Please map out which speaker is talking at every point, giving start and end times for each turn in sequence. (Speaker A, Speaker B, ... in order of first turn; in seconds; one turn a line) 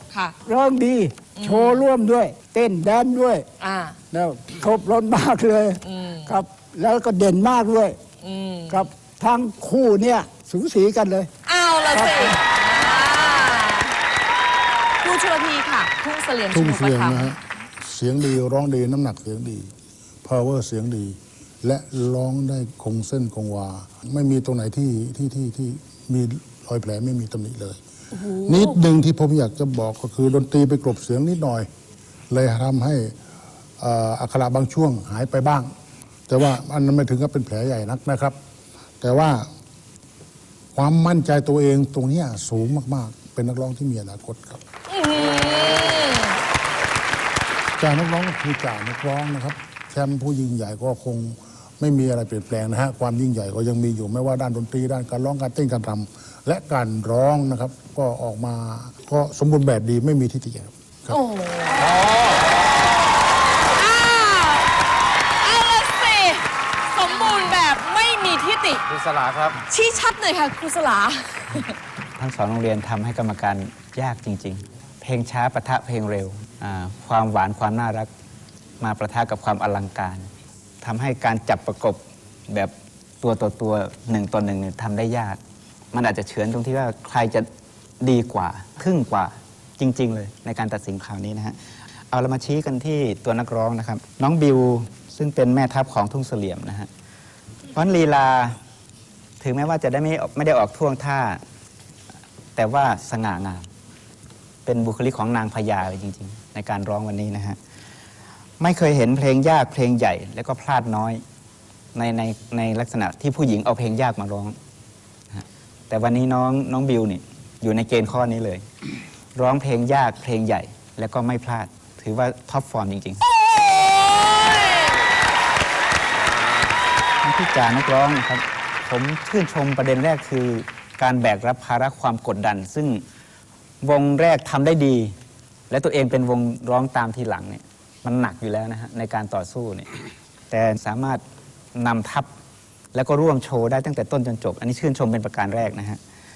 Speaker A: 0.4-3.4
Speaker B: 1.3-1.9
Speaker B: 3.6-4.0
Speaker A: 4.1-8.0
Speaker B: 5.8-6.4
Speaker B: 8.2-8.9
Speaker A: 8.7-11.3
Speaker B: 11.4-13.9
Speaker A: 11.9-12.4
Speaker B: 15.0-17.3
Speaker C: 16.5-19.7
Speaker C: 20.2-27.8
Speaker B: 28.2-28.7
Speaker C: 28.3-31.7
Speaker C: 32.3-33.1
Speaker C: 33.8-35.7
Speaker C: 36.3-38.4
Speaker C: 39.0-39.5
Speaker C: 40.7-44.6
Speaker B: 44.9-46.3
Speaker D: 45.1-46.0
Speaker C: 47.8-61.2
Speaker B: 61.1-61.8
Speaker D: 61.8-62.4
Speaker B: 63.7-64.7
Speaker B: 65.4-68.8
Speaker D: 68.9-69.6
Speaker B: 69.7-71.7
Speaker E: 72.2-78.1
Speaker E: 78.8-80.3
Speaker E: 80.8-85.4
Speaker E: 85.9-87.5
Speaker E: 88.0-91.5
Speaker E: 92.1-96.9
Speaker E: 97.7-98.6
Speaker E: 99.4-101.4
Speaker E: 102.5-103.7
Speaker E: 104.7-107.6
Speaker E: 108.6-111.2
Speaker E: 111.9-114.5
Speaker E: 115.3-118.6
Speaker E: 119.3-123.2
Speaker E: 127.2-133.0
Speaker E: 133.8-135.1
Speaker E: 135.7-139.9
Speaker E: 140.5-141.2
Speaker E: 141.7-142.3
Speaker E: 142.9-146.0